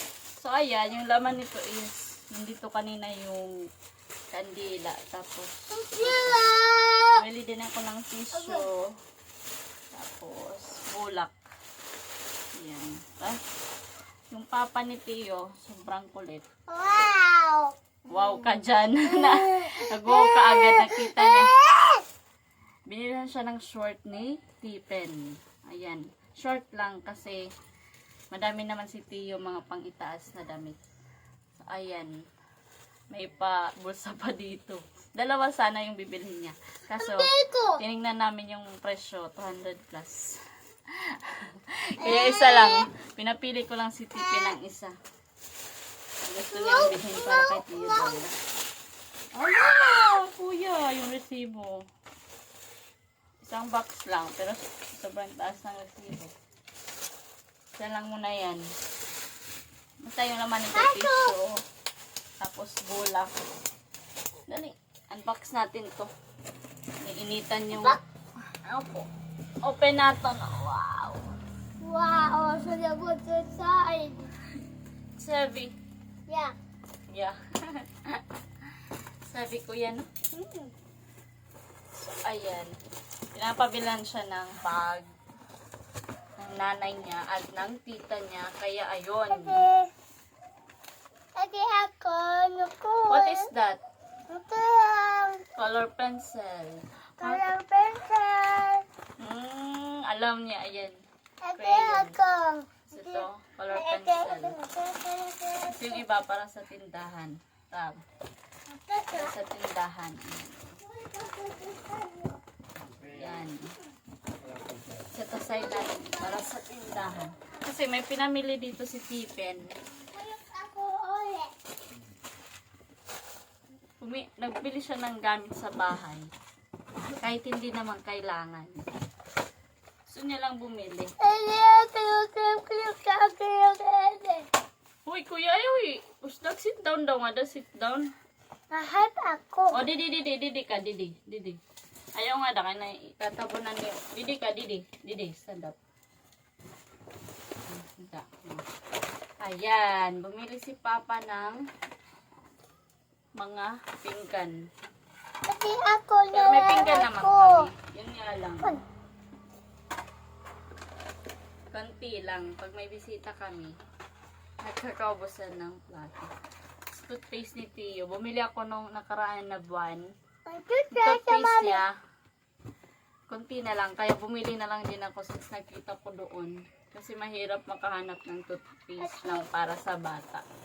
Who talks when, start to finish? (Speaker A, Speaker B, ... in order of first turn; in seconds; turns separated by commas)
Speaker A: 0.4-3.6, Speaker A: 4.3-6.4, Speaker B: 5.7-7.2, Speaker A: 7.1-8.9, Speaker B: 8.3-8.7, Speaker A: 9.9-11.3, Speaker A: 12.6-13.4, Speaker A: 14.3-16.4, Speaker B: 16.7-17.7, Speaker A: 18.1-21.5, Speaker B: 19.0-22.1, Speaker A: 22.9-27.5, Speaker A: 28.3-30.8, Speaker A: 31.6-32.1, Speaker A: 33.1-44.9, Speaker B: 37.0-37.8, Speaker B: 42.0-42.9, Speaker A: 46.2-48.4, Speaker B: 46.5-48.2, Speaker A: 49.3-51.8, Speaker A: 53.4-56.3, Speaker A: 57.8-58.6, Speaker A: 60.0-61.6, Speaker B: 60.7-61.3, Speaker A: 62.4-63.3, Speaker A: 64.5-66.1, Speaker A: 67.0-68.0, Speaker B: 67.7-68.0, Speaker A: 68.7-69.1, Speaker A: 69.6-71.3, Speaker B: 71.8-74.3, Speaker A: 75.2-75.7, Speaker B: 76.3-76.5, Speaker A: 77.1-78.2, Speaker A: 79.2-80.1, Speaker B: 80.3-80.7, Speaker A: 82.1-82.7, Speaker A: 83.3-85.1, Speaker A: 86.4-89.6, Speaker B: 89.3-89.9, Speaker B: 91.4-93.5, Speaker A: 93.1-93.8, Speaker B: 94.3-95.4, Speaker A: 95.6-97.5, Speaker B: 97.2-98.8, Speaker A: 99.2-101.0, Speaker B: 101.4-106.0, Speaker A: 101.6-102.2, Speaker A: 102.9-104.6, Speaker A: 105.7-108.0, Speaker B: 108.7-109.3, Speaker A: 109.1-110.8, Speaker B: 110.8-112.4, Speaker A: 113.1-113.7, Speaker A: 115.1-119.7, Speaker B: 115.6-116.5, Speaker B: 120.1-121.5, Speaker A: 124.0-126.3, Speaker A: 127.1-128.9, Speaker A: 130.1-131.1, Speaker B: 131.2-134.5, Speaker A: 135.1-138.1, Speaker B: 138.7-139.8, Speaker A: 139.7-141.6, Speaker A: 142.2-145.8, Speaker A: 147.7-148.6, Speaker A: 149.4-151.6, Speaker A: 153.4-154.6, Speaker B: 155.5-157.7, Speaker A: 156.3-158.8, Speaker A: 161.7-163.7, Speaker A: 164.6-166.3, Speaker A: 166.9-170.1, Speaker B: 170.5-171.8, Speaker A: 170.9-171.9, Speaker A: 173.3-180.4, Speaker B: 179.0-179.5